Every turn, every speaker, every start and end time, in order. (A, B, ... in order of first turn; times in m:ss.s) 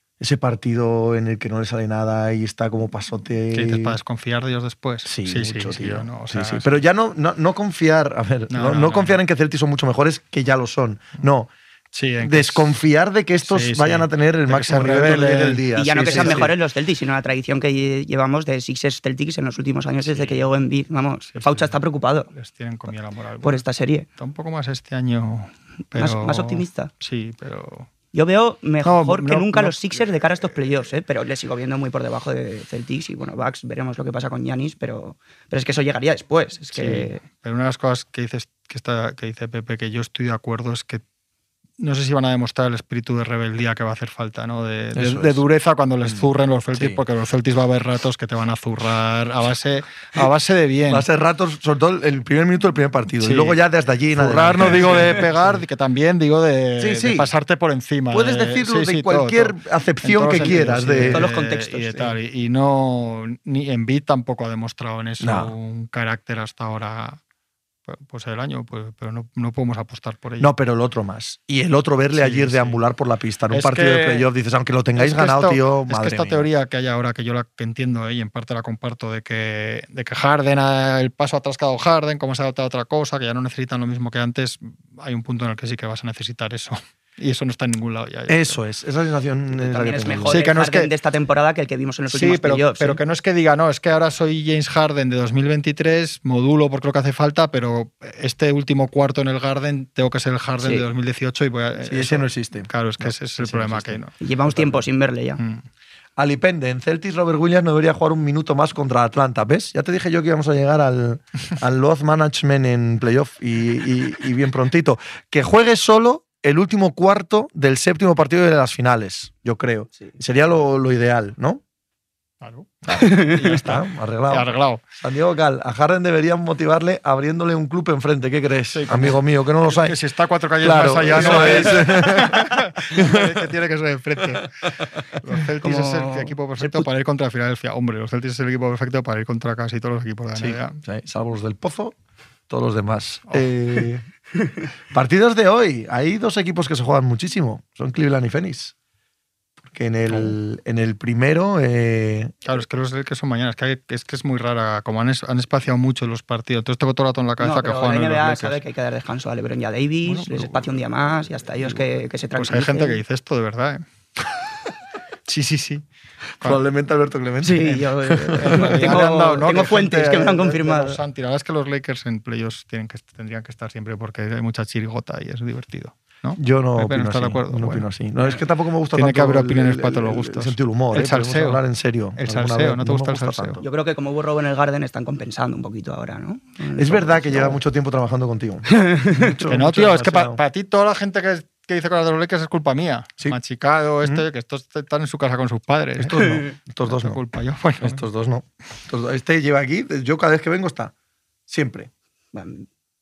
0:00.2-0:04.0 A
0:03.5-0:06.8 B
0:05.1-0:11.5 A
0:08.5-0:09.2 B
0:11.9-0:12.7 B
0:12.2-0:16.5 A
0:13.4-0:16.5 B
0:15.7-0:22.3 C
0:20.1-0:20.5 B
0:21.3-0:21.8 B
0:22.3-0:23.6 B
0:23.4-0:24.1 C
0:24.2-0:27.9 B
0:26.0-0:26.9 C
0:28.1-0:37.2 C
0:28.8-0:30.0 B
0:36.7-0:41.0 B
0:41.8-0:51.1 B
0:45.0-0:45.4 A
0:46.0-0:47.0 A
0:50.9-0:55.6 A
0:53.2-0:53.6 B
0:54.1-1:07.2 B
0:56.8-0:57.3 A
0:58.1-1:01.3 A
1:01.1-1:02.1 C
1:05.2-1:05.5 A
1:07.9-1:10.5 B
1:10.4-1:16.5 A
1:12.1-1:12.8 B
1:13.5-1:14.3 B
1:15.0-1:28.6 B
1:28.3-1:30.4 A
1:29.5-1:33.0 C
1:30.3-1:30.9 B
1:32.1-1:44.1 B
1:41.8-1:44.8 A
1:44.2-1:45.4 C
1:45.4-1:45.6 B
1:46.2-2:01.6 A
2:02.4-2:04.8 B
2:03.0-2:03.3 C
2:03.4-2:10.0 A
2:08.7-2:20.8 B
2:10.6-2:13.5 A
2:11.2-2:11.5 C
2:15.6-2:16.8 C
2:20.4-2:22.0 A
2:22.5-2:24.0 A
2:24.9-2:28.7 A
2:29.6-2:32.4 A
2:30.1-2:30.4 B
2:32.4-2:38.6 B
2:37.4-2:43.0 C
2:40.1-2:40.7 B
2:42.4-2:43.8 B
2:45.3-2:45.8 B
2:46.4-2:49.7 A
2:47.4-2:51.0 C
2:48.3-2:57.9 B
2:56.4-3:03.6 A
2:58.9-3:01.6 B
3:02.2-3:03.6 B
3:03.6-3:07.6 C
3:06.8-3:10.4 A
3:08.7-3:09.3 C
3:09.4-3:18.0 B
3:16.0-3:17.2 A
3:17.8-3:20.9 A
3:21.5-3:21.9 A
3:22.3-3:22.7 C